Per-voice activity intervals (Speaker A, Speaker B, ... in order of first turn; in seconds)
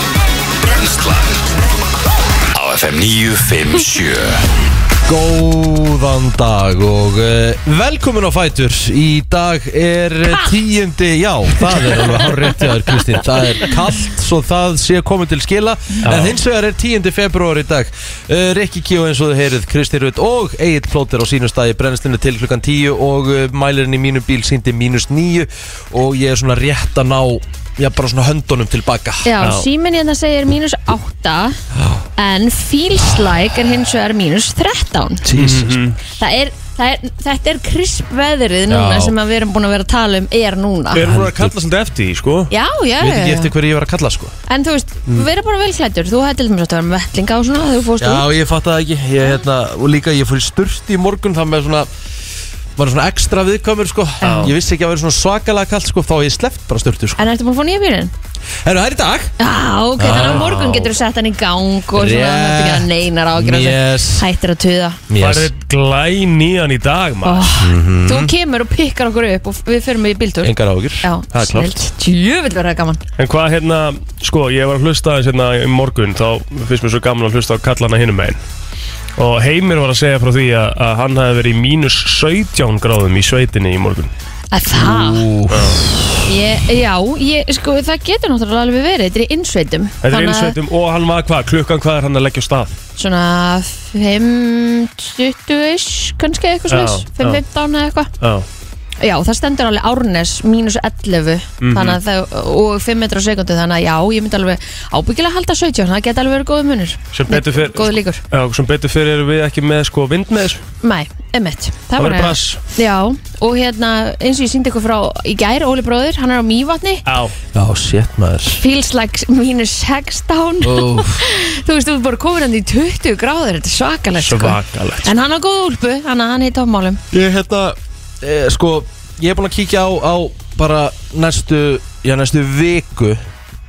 Speaker A: 0.6-1.5, 2.5-4.4
Speaker B: 5.1-29.3, 35.2-35.8, 38.7-39.2, 41.0-41.5, 43.0-44.4, 48.0-51.9, 52.8-57.3, 58.6-59.3, 60.0-60.6, 62.0-64.3, 65.1-65.5, 67.6-68.3, 70.4-71.8, 84.7-86.3, 117.5-118.6, 120.6-121.2, 127.1-133.2
Speaker C: 16.0-16.4, 35.4-36.0, 40.9-42.5, 54.2-54.5, 60.0-60.9, 65.2-67.5, 73.2-78.4, 79.2-84.1, 85.5-85.8, 90.0-92.8, 96.7-97.4, 98.2-98.5, 101.6-102.0, 107.1-110.6, 112.0-112.6, 117.1-117.3, 124.2-125.1
Speaker D: 29.2-31.6, 32.2-35.2, 36.2-41.1, 42.5-43.5, 44.5-48.3, 54.2-54.5, 57.2-58.1, 59.4-65.0, 67.2-73.0, 84.5-85.3, 86.3-90.5, 93.0-98.1, 99.0-108.2, 110.8-117.0, 118.6-127.0